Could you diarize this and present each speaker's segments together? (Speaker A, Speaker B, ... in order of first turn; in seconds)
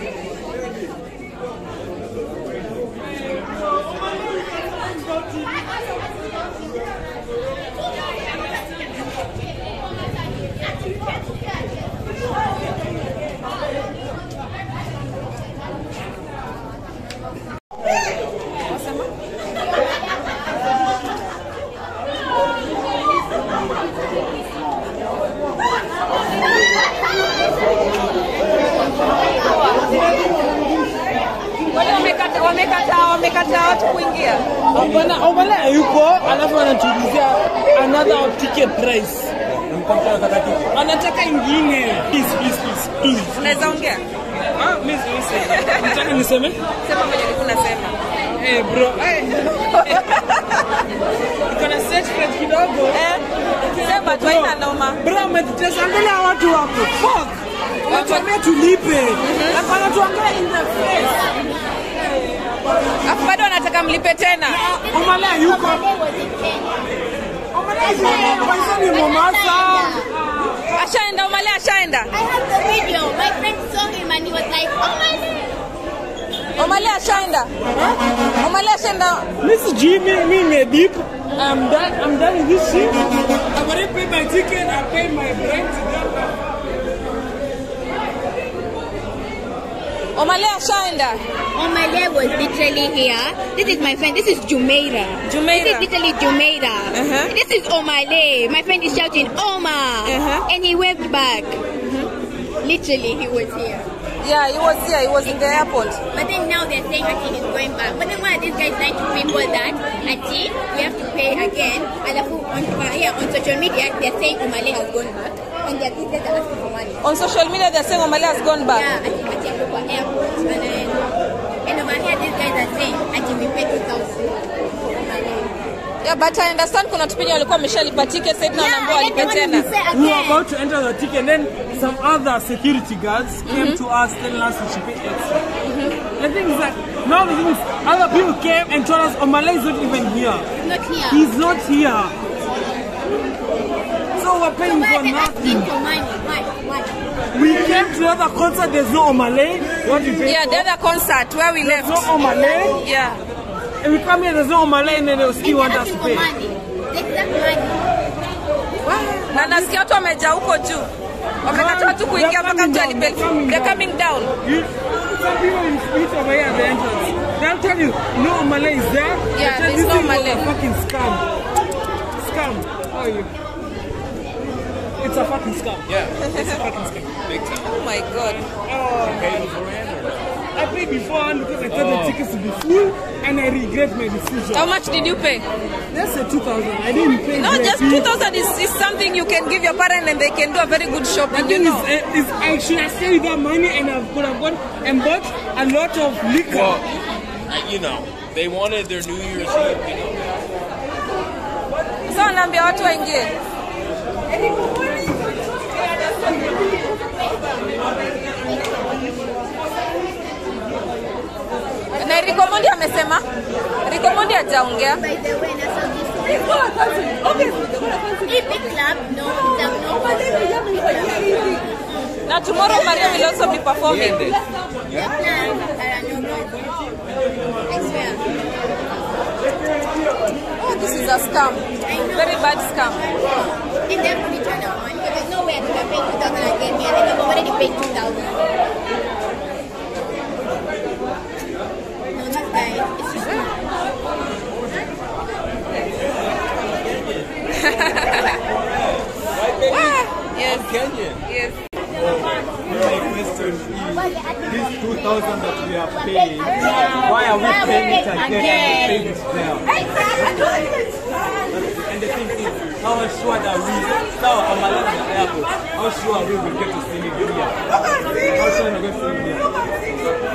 Speaker A: 18.7-19.1, 31.7-34.4, 43.4-44.0, 45.4-45.8, 46.8-48.0, 49.7-50.7, 52.9-53.2, 53.8-55.0, 57.9-58.3, 59.2-59.6, 63.0-64.6, 70.7-72.1, 76.6-77.5, 78.4-79.3, 90.2-91.2, 95.2-95.9, 96.9-97.3, 100.0-100.5, 101.8-102.1, 104.2-106.0, 117.0-118.9, 126.0-129.7, 133.5-133.8, 135.7-136.0, 150.2-152.1, 152.8-153.2, 158.9-160.9, 161.4-164.3, 169.3-170.5, 177.6-178.5, 184.5-185.5, 187.3-191.9, 202.1-203.3, 211.9-213.2, 213.8-215.0, 216.6-218.6, 222.3-224.3, 230.6-231.6, 232.2-233.0, 243.2-243.4, 247.6-248.4, 249.7-250.7, 251.3-251.6
Speaker B: 34.7-39.3, 40.7-43.8, 44.4-46.6, 48.4-49.5, 51.5-53.0, 53.6-61.3, 62.0-62.4, 64.5-65.8, 67.5-70.8, 79.4-86.4, 129.9-135.3, 136.2-140.5, 141.1-142.1, 144.2-145.7, 147.3-150.7, 151.6-152.8, 153.8-156.3, 158.9-159.7, 161.5-163.9, 164.4-171.2, 172.2-173.3, 175.0-177.2, 178.7-179.5, 180.6-184.7, 185.9-188.1, 191.3-196.8, 256.6-257.0
Speaker C: 39.7-40.7, 252.7-259.6, 261.8-267.6, 268.4-269.5
Speaker D: 61.1-61.5, 64.5-66.9, 67.8-70.1, 72.1-75.3, 91.5-101.6, 102.6-103.9, 105.2-117.0, 118.7-121.1, 121.7-125.6, 128.5-130.4, 140.6-141.3, 144.6-146.9, 152.2-152.9, 155.4-157.9, 206.5-207.1, 208.2-208.9, 214.9-216.6, 218.3-221.7, 222.6-223.5, 224.9-226.9, 227.7-228.2, 231.8-238.4, 242.1-243.6, 253.8-260.7
Speaker E: 175.9-176.2, 177.2-177.7, 179.0-180.3, 181.7-182.2, 196.5-196.8, 197.5-200.3, 223.9-224.4, 246.7-247.2, 249.4-251.2, 252.0-252.2